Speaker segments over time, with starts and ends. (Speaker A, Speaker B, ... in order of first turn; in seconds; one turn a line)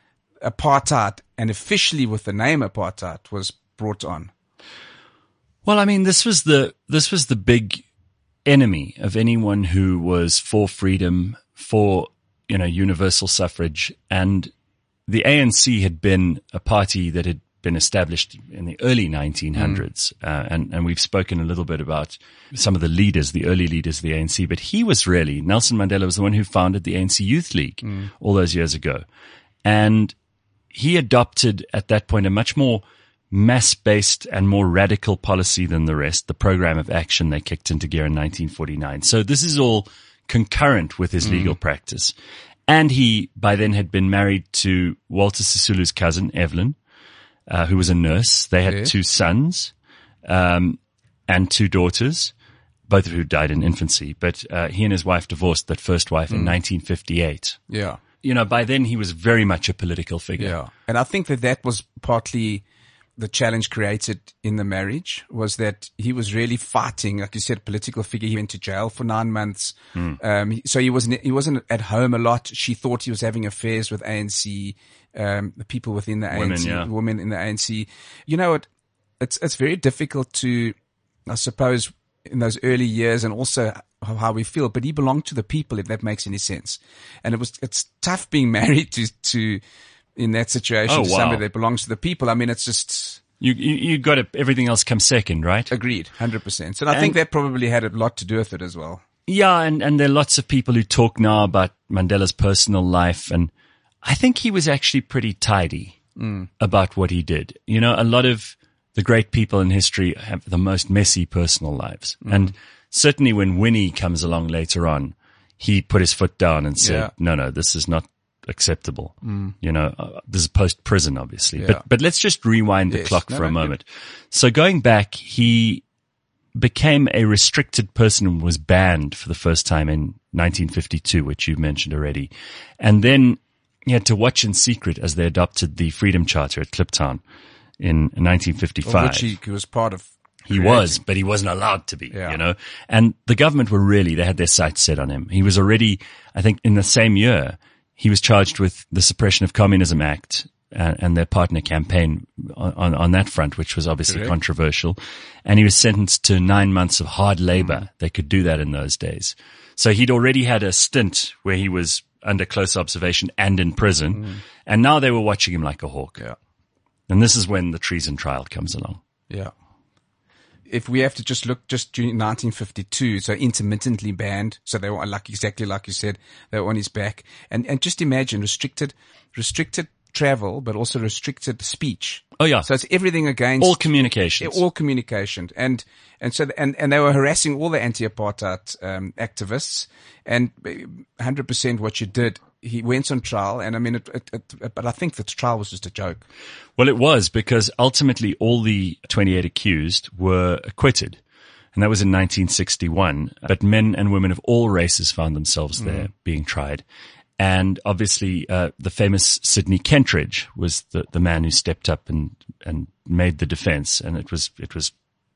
Speaker A: 0.4-4.3
Speaker B: 5.7-7.8
Speaker B: 8.4-14.5
Speaker B: 15.1-29.1
Speaker A: 19.6-19.8
Speaker B: 29.6-30.2
Speaker B: 30.7-42.1
Speaker A: 41.2-41.6
Speaker B: 42.7-46.8
Speaker B: 47.5-49.7
Speaker A: 48.7-48.9
Speaker B: 50.2-52.3
Speaker B: 52.9-57.6
Speaker A: 56.3-56.5
Speaker A: 57.7-58.0
Speaker B: 58.2-60.6
Speaker A: 60.4-62.6
Speaker A: 63.2-78.7
Speaker B: 76.3-76.9
Speaker A: 79.2-80.8
Speaker A: 81.3-89.6
Speaker A: 90.2-93.2
Speaker B: 90.9-91.4
Speaker B: 93.4-95.7
Speaker A: 95.7-99.0
Speaker B: 96.9-97.2
Speaker B: 99.3-103.5
Speaker B: 104.0-106.0
Speaker A: 106.2-106.5
Speaker B: 106.6-125.8
Speaker A: 112.2-112.5
Speaker A: 116.8-117.1
Speaker A: 119.2-119.5
Speaker A: 121.6-121.8
Speaker A: 122.9-123.7
Speaker B: 126.5-137.2
Speaker B: 137.8-139.3
Speaker A: 138.8-141.0
Speaker B: 140.4-166.2
Speaker A: 142.1-142.4
Speaker A: 154.1-154.3
Speaker A: 164.1-164.4
Speaker B: 167.1-169.0
Speaker A: 170.7-183.9
Speaker B: 182.4-182.7
Speaker B: 183.6-184.6
Speaker A: 184.4-196.2
Speaker B: 196.8-201.2
Speaker B: 201.7-206.8
Speaker B: 207.4-214.9